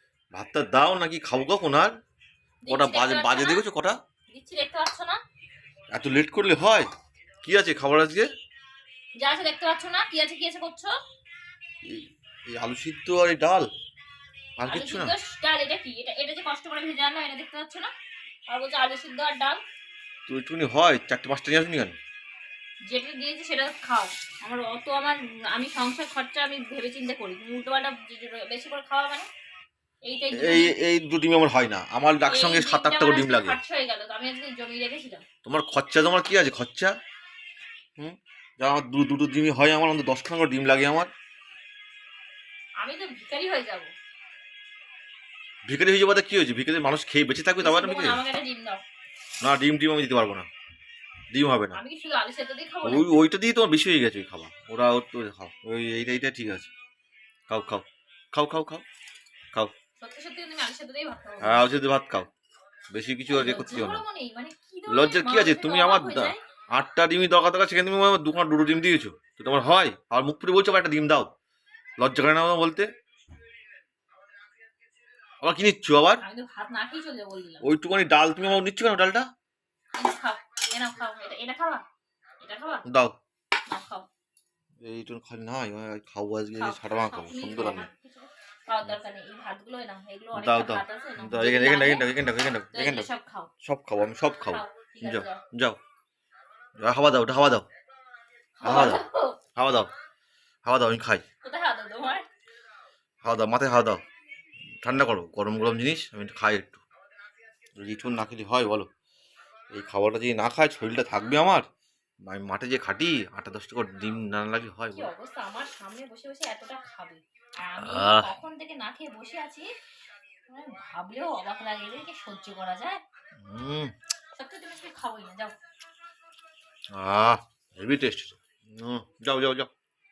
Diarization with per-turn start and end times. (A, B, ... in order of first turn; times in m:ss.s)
0:00.3-0:01.9 A
0:02.6-0:03.6 B
0:02.7-0:04.0 A
0:04.3-0:05.2 B
0:05.9-0:06.9 A
0:07.4-0:08.3 A
0:09.2-0:10.9 B
0:11.8-0:13.7 A
0:14.6-0:15.1 A
0:14.6-0:17.9 B
0:18.5-0:19.6 B
0:20.3-0:22.0 A
0:22.8-0:29.3 B
0:30.0-0:30.7 B
0:30.3-0:33.6 A
0:32.2-0:35.2 B
0:35.4-0:36.9 A
0:38.0-0:41.1 A
0:42.8-0:43.9 B
0:45.6-0:48.2 A
0:47.6-0:48.8 B
0:49.4-0:50.5 A
0:51.3-0:51.8 A
0:51.7-0:53.2 B
0:52.8-0:56.7 A
0:57.5-0:58.8 A
1:00.0-1:01.7 B
1:01.4-1:02.3 A
1:02.9-1:04.0 A
1:03.3-1:06.4 B
1:04.9-1:11.3 A
1:12.0-1:12.9 A
1:15.4-1:16.2 A
1:16.2-1:17.6 B
1:17.6-1:19.3 A
1:19.9-1:21.8 B
1:22.4-1:22.8 B
1:22.8-1:23.1 A
1:23.6-1:24.1 B
1:24.8-1:27.9 A
1:26.5-1:32.1 B
1:30.3-1:33.1 A
1:32.7-1:33.5 B
1:33.6-1:35.8 A
1:34.4-1:35.4 B
1:36.8-1:37.6 A
1:38.6-1:39.4 B
1:38.6-1:39.0 A
1:39.6-1:39.9 A
1:40.6-1:41.2 A
1:41.4-1:42.2 B
1:43.2-1:44.0 A
1:44.8-1:46.8 A
1:47.8-1:48.9 A
1:49.7-1:51.6 A
1:52.2-1:55.1 A
1:54.9-1:59.7 B
1:57.8-1:58.3 A
2:00.5-2:03.0 B
2:03.4-2:03.9 A
2:04.3-2:05.5 B
2:06.9-2:09.7 A